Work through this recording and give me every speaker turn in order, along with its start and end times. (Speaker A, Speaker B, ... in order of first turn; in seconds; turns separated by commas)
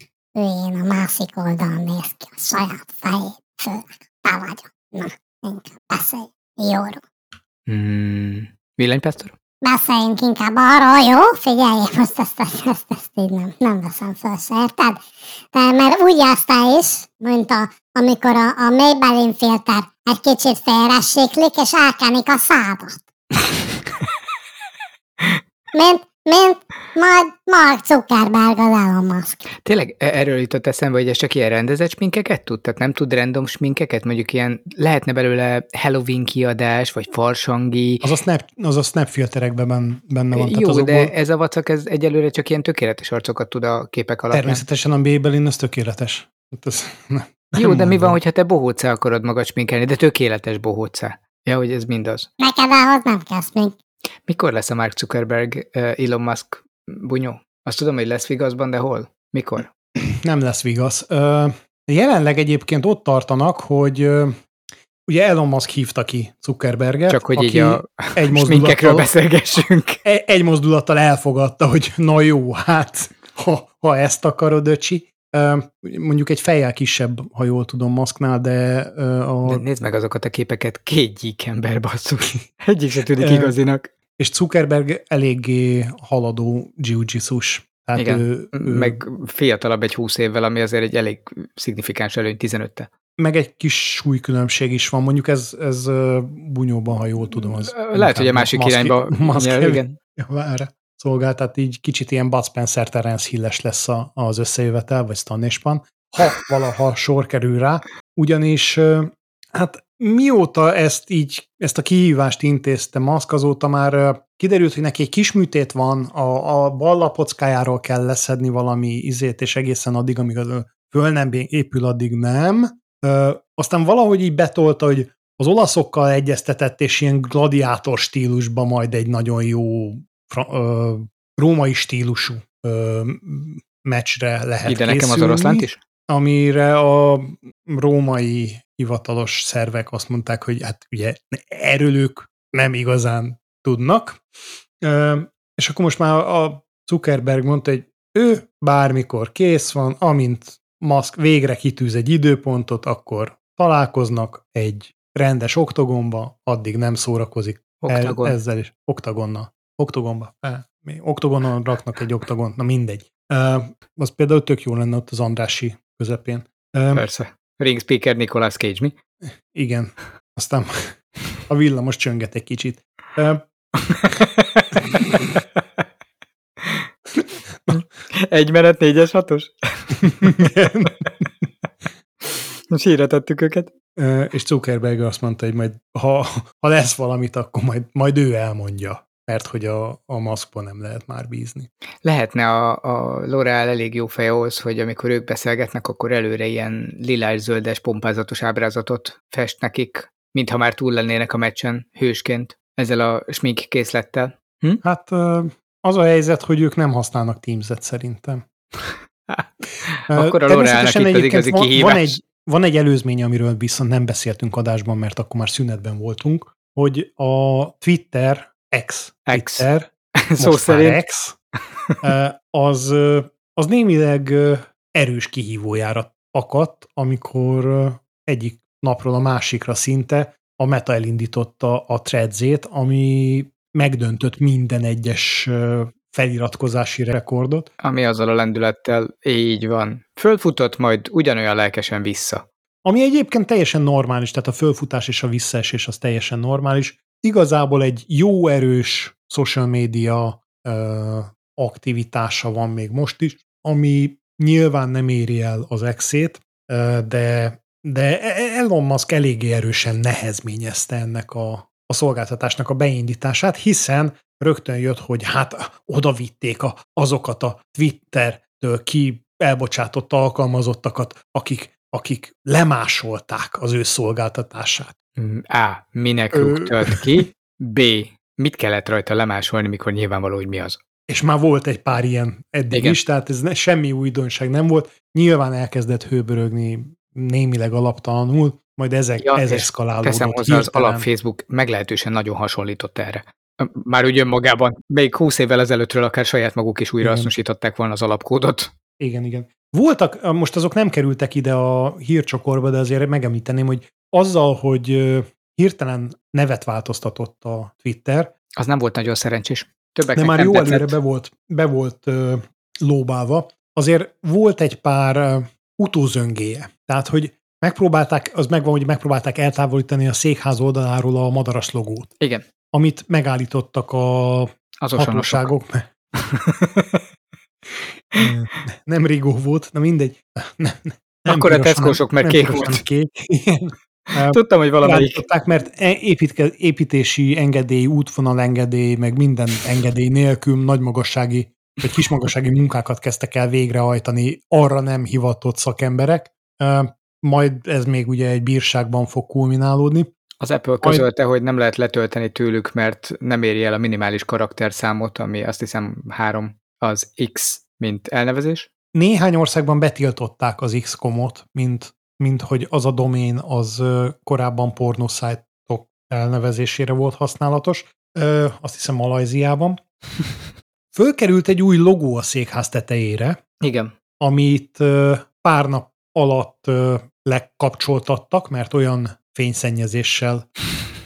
Speaker A: 0.3-7.0, Speaker B: 7.7-9.3, Speaker A: 9.6-15.0, Speaker A: 15.5-23.0, Speaker A: 25.7-29.4, Speaker B: 29.6-38.1, Speaker C: 38.0-41.1, Speaker B: 40.3-44.6, Speaker C: 44.3-48.2, Speaker B: 47.6-52.3, Speaker A: 52.4-53.7, Speaker B: 54.3-59.7, Speaker C: 60.0-64.3, Speaker C: 65.1-69.1, Speaker B: 67.1-70.0, Speaker C: 70.0-79.6, Speaker B: 79.4-83.9, Speaker C: 83.2-83.5, Speaker C: 84.2-89.0, Speaker B: 88.0-92.9, Speaker C: 93.2-144.2, Speaker B: 97.3-100.0, Speaker B: 134.7-135.8, Speaker C: 144.8-167.0, Speaker B: 157.8-158.4, Speaker B: 166.9-168.9, Speaker C: 169.5-170.9, Speaker C: 171.5-173.4, Speaker B: 173.8-175.2, Speaker B: 176.6-176.9, Speaker B: 177.7-180.5, Speaker C: 180.1-181.2, Speaker B: 182.7-183.7, Speaker C: 183.9-191.7, Speaker B: 192.0-204.8, Speaker C: 204.8-208.4, Speaker B: 210.1-212.2, Speaker C: 210.1-221.3, Speaker B: 219.3-221.0, Speaker C: 222.0-237.7, Speaker B: 237.8-242.4, Speaker C: 242.8-274.9, Speaker B: 275.2-280.8, Speaker C: 276.3-277.2, Speaker C: 281.1-291.1, Speaker B: 282.7-283.0, Speaker B: 289.2-298.7, Speaker C: 297.0-297.3, Speaker C: 299.0-308.3, Speaker B: 308.6-311.0, Speaker C: 310.1-322.1, Speaker B: 322.2-322.4, Speaker C: 322.7-325.9, Speaker B: 324.8-325.5, Speaker B: 326.1-327.0, Speaker C: 328.1-350.1, Speaker B: 331.3-332.8, Speaker B: 334.1-335.2, Speaker B: 350.4-358.7, Speaker C: 350.8-351.1, Speaker C: 358.9-369.8, Speaker C: 370.9-373.4, Speaker B: 373.6-373.9, Speaker C: 374.2-380.5